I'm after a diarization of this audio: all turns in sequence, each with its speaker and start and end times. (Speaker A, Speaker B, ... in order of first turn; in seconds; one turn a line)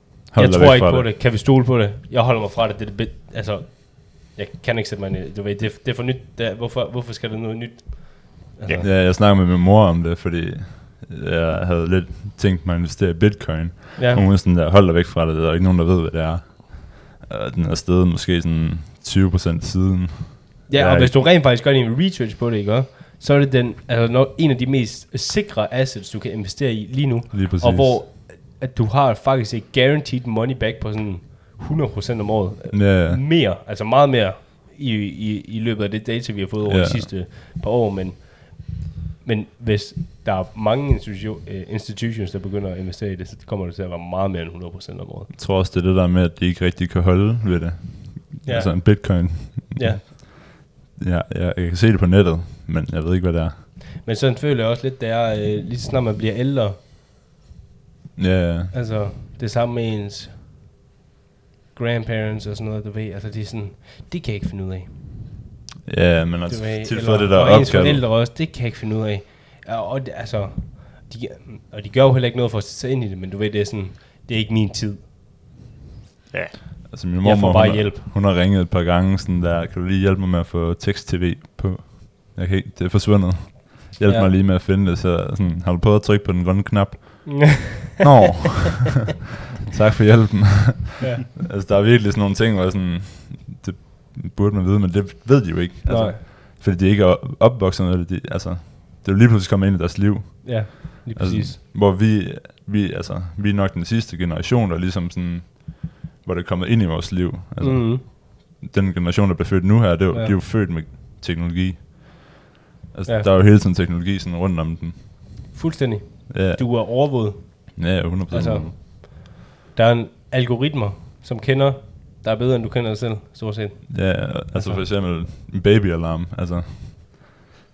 Speaker A: 0.3-1.1
Speaker B: 0.3-8.9
Speaker A: 8.8-21.2
Speaker B: 14.0-14.2
Speaker B: 20.7-45.3
Speaker A: 27.3-28.0
Speaker A: 32.7-33.2
Speaker A: 36.6-37.1
Speaker A: 45.3-53.7
Speaker B: 48.4-50.0
Speaker B: 54.0-56.8
Speaker A: 58.1-58.7
Speaker B: 58.7-60.5
Speaker B: 61.7-65.0
Speaker A: 65.8-68.0
Speaker B: 66.5-75.1
Speaker A: 76.9-89.0
Speaker B: 77.2-78.0
Speaker B: 84.0-84.3
Speaker B: 87.3-87.9
Speaker A: 89.6-115.5
Speaker B: 95.8-96.2
Speaker B: 100.4-101.6
Speaker B: 107.6-108.0
Speaker B: 110.1-110.3
Speaker B: 115.5-124.8
Speaker A: 116.3-118.7
Speaker A: 123.9-127.4